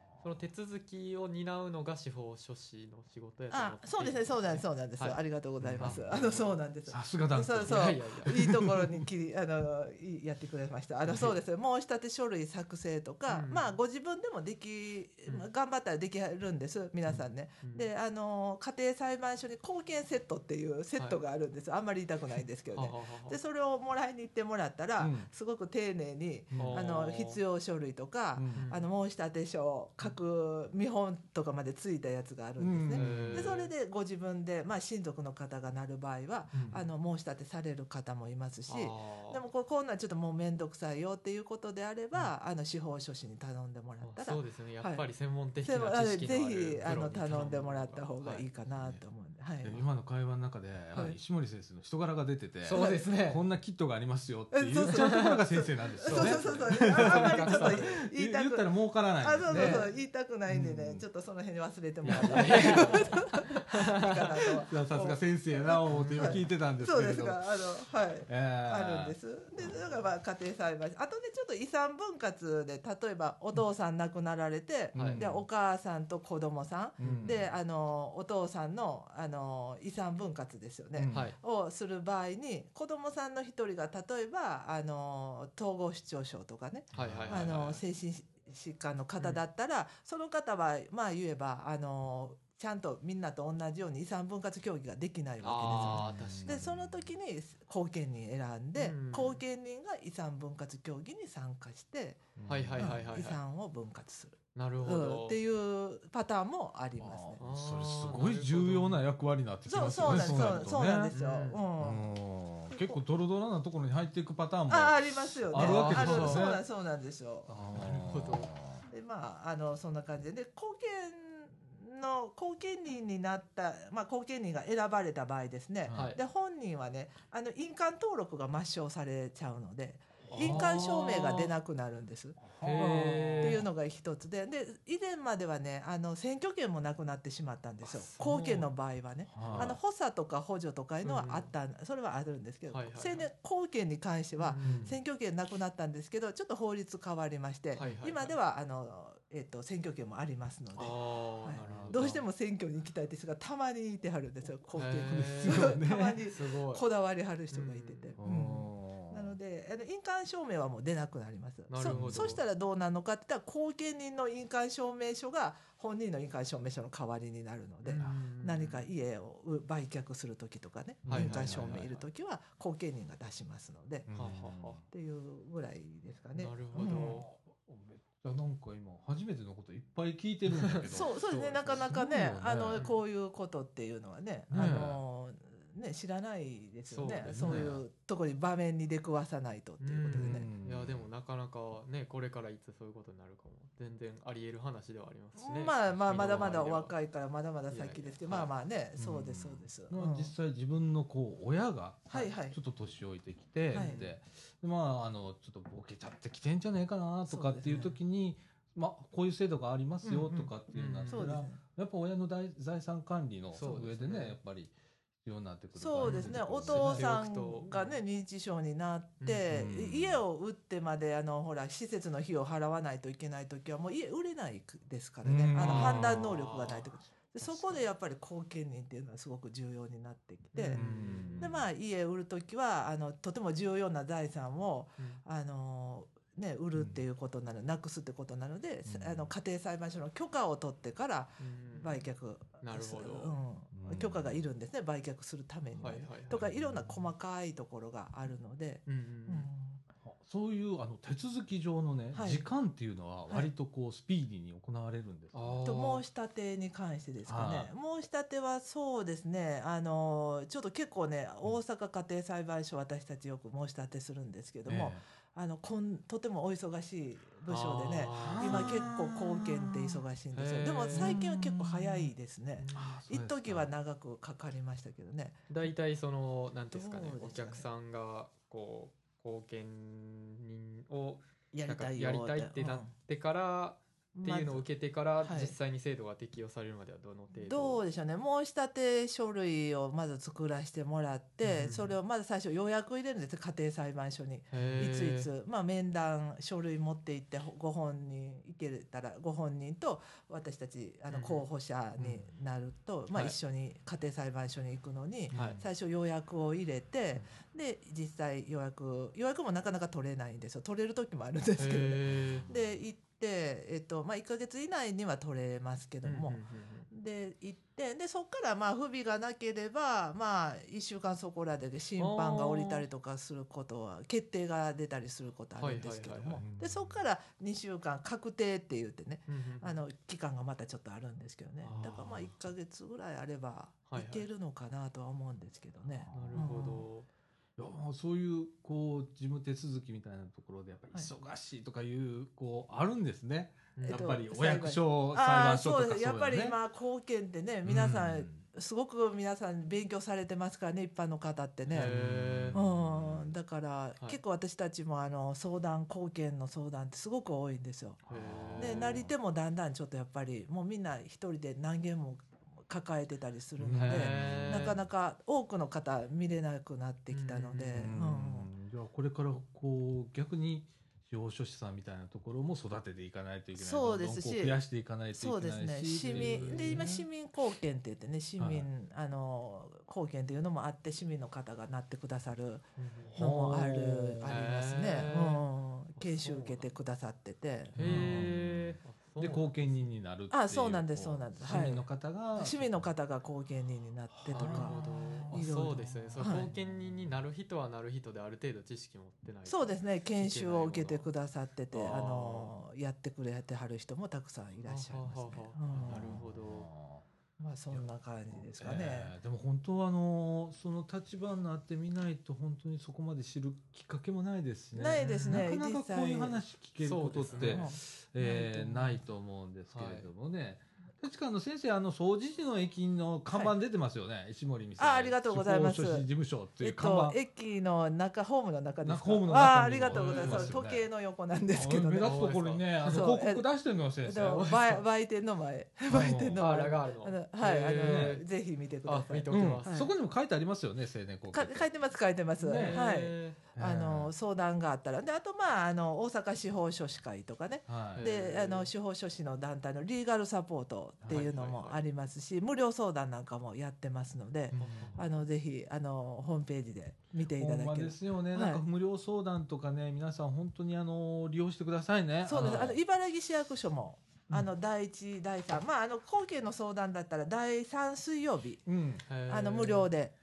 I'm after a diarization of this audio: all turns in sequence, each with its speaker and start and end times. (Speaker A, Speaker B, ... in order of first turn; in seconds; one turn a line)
Speaker A: 0.2-5.2
Speaker B: 3.5-45.0
Speaker C: 5.6-6.1
Speaker A: 5.8-6.6
Speaker C: 6.9-9.1
Speaker A: 7.6-8.4
Speaker A: 11.1-11.4
Speaker A: 13.3-13.8
Speaker A: 17.6-17.9
Speaker A: 22.7-23.4
Speaker C: 25.0-25.3
Speaker C: 26.5-26.9
Speaker A: 26.6-27.4
Speaker C: 28.4-28.7
Speaker A: 28.6-28.9
Speaker C: 32.6-33.6
Speaker A: 33.0-33.7
Speaker C: 36.5-36.8
Speaker A: 38.7-39.4
Speaker A: 44.0-48.5
Speaker B: 45.6-49.8
Speaker C: 49.6-59.9
Speaker A: 52.6-53.4
Speaker B: 54.5-107.4
Speaker A: 54.9-55.4
Speaker A: 56.0-58.0
Speaker A: 59.5-59.9
Speaker C: 60.5-61.0
Speaker A: 62.0-64.4
Speaker C: 62.2-63.1
Speaker C: 64.7-67.6
Speaker A: 65.9-66.4
Speaker C: 68.3-69.2
Speaker A: 74.9-75.2
Speaker C: 75.0-75.4
Speaker A: 77.0-77.5
Speaker C: 77.0-77.5
Speaker C: 81.0-81.3
Speaker A: 81.1-81.4
Speaker C: 86.9-87.6
Speaker A: 86.9-87.8
Speaker A: 95.4-96.7
Speaker C: 95.7-97.1
Speaker A: 98.8-99.4
Speaker C: 102.4-103.1
Speaker A: 102.5-103.4
Speaker A: 104.5-105.4
Speaker C: 107.0-111.1
Speaker A: 107.4-109.0
Speaker B: 109.7-112.2
Speaker A: 110.3-110.6
Speaker A: 111.1-111.6
Speaker C: 111.8-116.6
Speaker B: 112.7-113.0
Speaker B: 114.7-117.5
Speaker A: 115.5-116.6
Speaker C: 117.5-118.8
Speaker A: 117.7-118.5
Speaker B: 118.9-174.1
Speaker A: 125.9-126.2
Speaker C: 130.3-131.4
Speaker A: 130.4-130.9
Speaker C: 132.4-133.7
Speaker A: 132.6-133.7
Speaker A: 137.8-138.7
Speaker C: 139.3-139.8
Speaker A: 139.4-139.8
Speaker A: 141.0-141.5
Speaker A: 142.7-143.3
Speaker A: 144.4-145.0
Speaker C: 144.6-144.9
Speaker A: 147.8-148.4
Speaker A: 150.8-152.2
Speaker C: 151.6-152.2
Speaker A: 154.8-156.8
Speaker C: 155.0-156.2
Speaker A: 157.5-158.2
Speaker C: 158.2-159.4
Speaker A: 161.7-162.4
Speaker C: 161.9-162.2
Speaker A: 167.8-168.9
Speaker A: 171.1-172.0
Speaker C: 171.1-171.9
Speaker C: 174.1-174.8
Speaker A: 174.1-174.8
Speaker B: 174.9-177.2
Speaker A: 176.3-177.3
Speaker C: 176.7-182.8
Speaker A: 180.5-181.9
Speaker B: 180.8-190.5
Speaker A: 182.7-183.0
Speaker C: 184.5-185.0
Speaker A: 184.5-184.9
Speaker A: 186.9-187.8
Speaker C: 187.4-187.8
Speaker A: 189.8-196.9
Speaker C: 190.1-191.1
Speaker B: 195.4-200.3
Speaker C: 196.2-196.5
Speaker A: 197.7-198.5
Speaker C: 199.0-217.1
Speaker B: 202.1-202.6
Speaker B: 203.7-204.0
Speaker A: 203.7-204.1
Speaker B: 207.3-208.0
Speaker B: 210.1-210.5
Speaker A: 210.7-211.3
Speaker B: 211.1-211.6
Speaker A: 213.5-214.4
Speaker B: 215.8-230.8
Speaker A: 216.0-218.0
Speaker A: 219.2-219.5
Speaker C: 219.5-220.2
Speaker C: 225.2-226.1
Speaker A: 225.6-227.9
Speaker A: 230.5-231.6
Speaker C: 230.7-231.6
Speaker B: 231.4-249.8
Speaker C: 236.7-237.0
Speaker C: 238.9-239.3
Speaker A: 241.4-242.0
Speaker A: 242.6-243.4
Speaker C: 243.7-244.4
Speaker A: 245.8-246.4
Speaker C: 246.3-247.1
Speaker A: 248.9-249.5
Speaker C: 250.0-255.6
Speaker B: 252.1-252.4
Speaker A: 255.3-256.0
Speaker B: 255.7-275.4
Speaker C: 257.2-257.7
Speaker C: 264.7-265.0
Speaker A: 267.5-268.9
Speaker C: 268.1-270.0
Speaker A: 270.3-271.7
Speaker C: 270.9-271.5
Speaker A: 272.6-273.0
Speaker C: 272.7-273.7
Speaker A: 275.5-287.8
Speaker B: 276.7-277.7
Speaker B: 281.5-282.9
Speaker B: 284.1-284.6
Speaker B: 285.2-285.6
Speaker B: 287.4-316.4
Speaker A: 291.4-291.9
Speaker A: 294.5-295.3
Speaker A: 301.1-301.4
Speaker A: 302.0-302.2
Speaker A: 305.3-305.6
Speaker C: 305.3-305.6
Speaker A: 311.6-312.5
Speaker C: 312.4-312.8
Speaker A: 316.0-316.9
Speaker B: 316.9-336.9
Speaker A: 322.0-322.9
Speaker A: 325.6-326.4
Speaker C: 326.4-327.0
Speaker A: 329.3-329.8
Speaker C: 331.7-332.3
Speaker A: 333.9-334.3
Speaker C: 336.0-336.5
Speaker A: 336.1-337.1
Speaker C: 337.6-346.6
Speaker A: 343.8-344.2
Speaker B: 343.9-351.9
Speaker C: 347.6-348.4
Speaker C: 351.7-353.3
Speaker A: 351.7-352.6
Speaker B: 352.5-358.0
Speaker C: 358.1-359.1
Speaker A: 358.1-359.1
Speaker B: 358.6-368.5
Speaker C: 363.6-364.8
Speaker A: 363.8-364.8
Speaker A: 367.1-367.9
Speaker C: 367.8-377.1
Speaker B: 373.6-374.6
Speaker B: 375.1-388.2
Speaker A: 376.1-376.9
Speaker C: 378.4-378.7
Speaker A: 382.8-383.1
Speaker C: 383.1-384.4
Speaker A: 384.2-385.4
Speaker A: 386.0-386.7
Speaker C: 387.8-392.9
Speaker A: 387.8-389.6
Speaker B: 390.3-396.5
Speaker C: 394.1-395.3
Speaker A: 394.3-401.1
Speaker C: 396.1-396.6
Speaker B: 399.5-406.2
Speaker A: 401.7-402.5
Speaker A: 404.6-406.7
Speaker C: 405.7-407.1
Speaker B: 407.4-409.1
Speaker C: 407.7-427.2
Speaker B: 414.7-416.4
Speaker A: 415.0-415.5
Speaker A: 416.8-417.7
Speaker B: 417.3-419.0
Speaker A: 419.7-420.1
Speaker B: 424.8-426.1
Speaker B: 426.6-432.1
Speaker C: 428.8-430.9
Speaker A: 429.9-430.6
Speaker C: 431.5-434.5
Speaker A: 432.0-433.1
Speaker B: 432.9-433.5
Speaker B: 434.0-439.9
Speaker A: 434.3-434.8
Speaker C: 435.9-436.4
Speaker A: 436.4-438.2
Speaker C: 437.8-438.2
Speaker A: 438.9-439.9
Speaker C: 439.3-441.7
Speaker B: 441.3-458.6
Speaker A: 442.4-443.4
Speaker C: 442.4-442.9
Speaker C: 443.6-444.1
Speaker C: 447.7-448.0
Speaker A: 448.0-448.7
Speaker C: 451.0-451.3
Speaker A: 451.1-451.8
Speaker A: 454.5-455.2
Speaker C: 454.6-455.0
Speaker C: 457.3-462.8
Speaker B: 462.2-468.6
Speaker A: 462.3-462.7
Speaker C: 468.7-469.0
Speaker A: 469.1-469.9
Speaker B: 469.3-470.1